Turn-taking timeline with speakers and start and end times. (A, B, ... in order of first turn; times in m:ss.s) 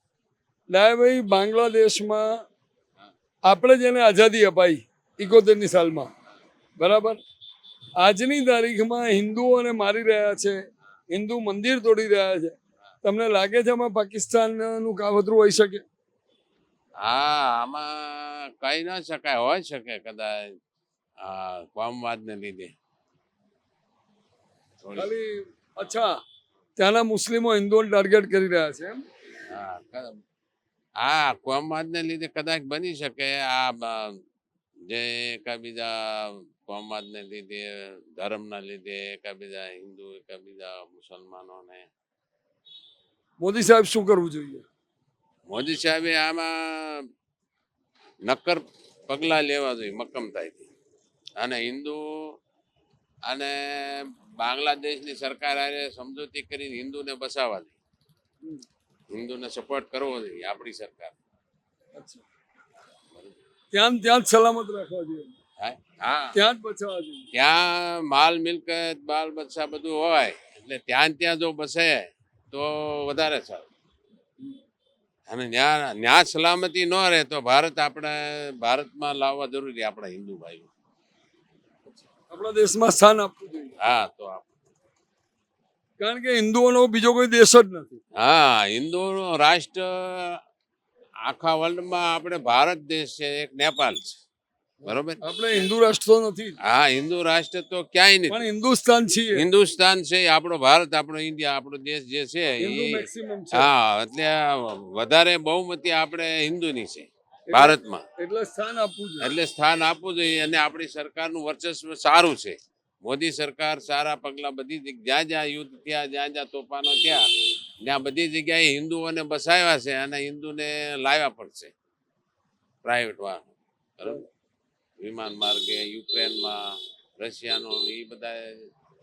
0:00.7-0:02.3 A
0:03.5-0:06.1 A
0:06.8-0:07.2 A
0:08.0-0:10.6 A
0:11.1-0:15.8 A
0:17.0-0:20.5 B
0:21.2-0:22.7 B
0:24.8-0:25.1 B
0:25.0-0:26.2 A
0:26.8-0:29.0 A
0:29.5-0:30.2 B
0:31.0-0:34.2 B
0:34.9-0:41.9 B
0:43.4-0:44.6 A
0:45.5-0:47.0 B
0:48.3-0:50.7 B
0:51.4-0:52.0 B
0:53.3-0:57.8 B
0:59.1-1:01.2 B
1:02.0-1:02.2 A
1:03.7-1:05.3 A
1:05.6-1:06.3 B
1:06.3-1:07.3 A
1:07.3-1:13.7 B
1:15.3-1:20.7 B
1:22.3-1:23.7 A
1:23.8-1:24.5 B
1:26.0-1:28.0 A
1:28.2-1:30.4 B
1:31.2-1:34.2 B
1:34.8-1:35.2 B
1:35.2-1:36.6 A
1:36.7-1:38.4 B
1:38.3-1:39.4 A
1:39.3-1:48.0 B
1:42.6-1:43.7 A
1:47.5-1:49.3 A
1:49.2-1:57.2 B
1:57.8-2:01.7 B
2:02.8-2:04.3 B
2:05.0-2:08.7 B